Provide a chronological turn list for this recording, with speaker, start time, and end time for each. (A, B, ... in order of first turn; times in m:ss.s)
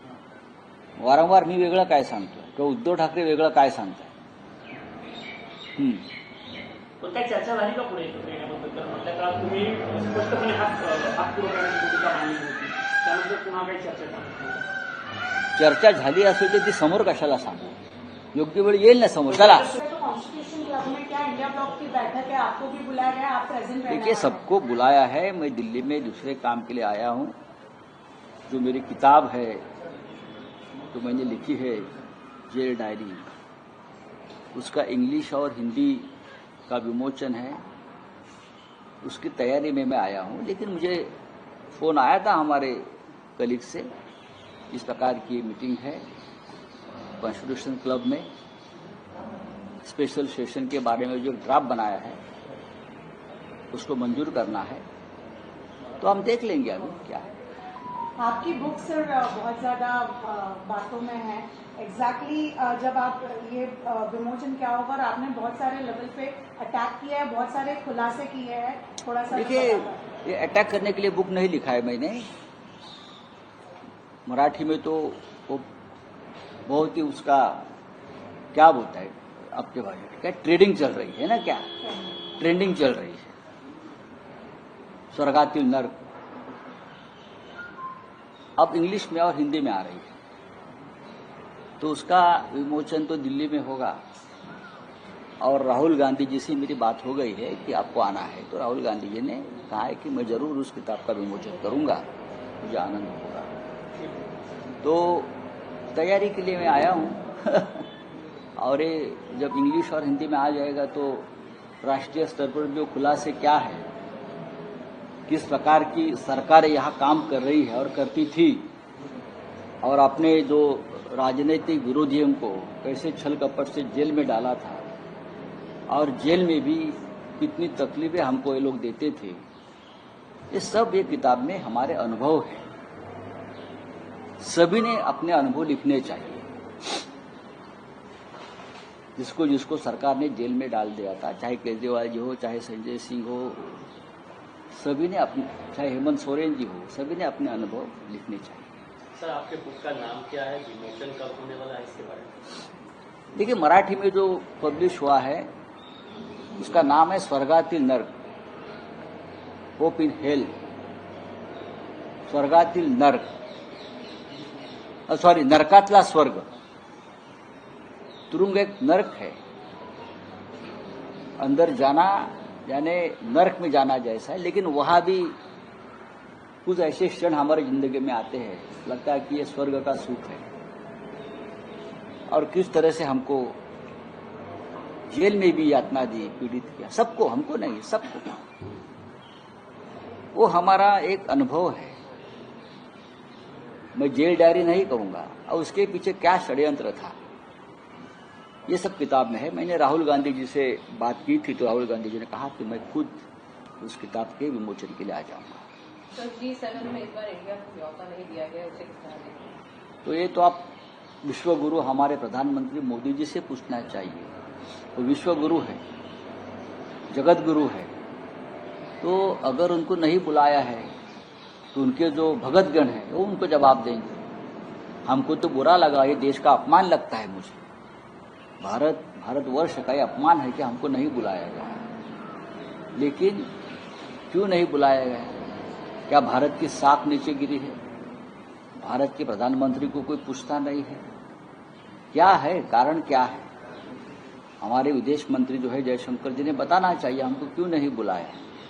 0:01.0-0:04.1 A
0:05.8-0:06.1 A
0:07.0-0:14.6 B
0:15.6-0:17.8 A
0:18.3-0:19.7 A
0:19.3-0:19.8 B
0:19.8-0:24.4 C
0:23.9-0:27.3 A
0:28.5-0:29.6 A
0:30.9-0:31.9 A
0:32.5-0:33.3 A
0:34.5-0:36.1 A
0:36.7-0:37.6 A
0:39.0-0:41.1 A
0:41.7-0:43.9 A
0:44.7-0:46.0 A
0:47.2-0:48.3 A
0:49.8-0:52.2 A
0:53.7-0:54.8 A
0:56.0-0:57.3 A
0:58.2-1:10.0 C
1:09.3-1:12.3 A
1:14.3-1:15.6 A
1:16.7-1:17.6 A
1:18.5-1:21.6 A
1:21.8-1:22.3 C
1:22.4-1:23.3 A
1:25.1-1:25.9 A
1:28.6-1:30.1 A
1:31.8-1:34.0 A
1:35.4-1:42.0 A
1:42.6-1:43.5 A
1:44.8-1:45.3 A
1:45.9-1:47.8 A
1:48.6-1:51.3 A
1:51.8-1:53.8 A
1:55.3-1:58.7 A
1:59.8-2:04.8 A
2:05.9-2:09.4 A
2:10.5-2:12.6 A
2:14.4-2:16.5 A
2:19.2-2:23.8 A
2:24.7-2:28.7 A
2:29.8-2:32.3 D
2:33.3-2:35.5 A
2:36.6-2:38.1 A
2:39.8-2:40.5 A
2:42.3-2:43.2 A
2:45.1-2:46.4 A
2:48.3-2:49.4 A
2:51.4-2:55.4 A
2:56.6-3:00.4 A
3:02.3-3:03.6 A
3:05.1-3:08.4 A
3:10.3-3:12.0 A
3:14.0-3:17.2 A
3:18.7-3:23.2 A
3:23.8-3:25.6 A
3:26.1-3:29.5 E
3:30.0-3:30.7 A
3:31.2-3:34.3 A
3:35.0-3:35.8 A
3:37.1-3:37.9 A
3:39.0-3:40.9 A
3:41.7-3:44.2 A
3:45.1-3:47.6 A
3:48.6-3:51.8 A
3:53.0-3:53.5 A
3:54.3-3:55.3 A
3:56.1-3:57.8 A
3:58.8-4:01.0 A
4:02.1-4:03.4 A
4:04.6-4:08.4 A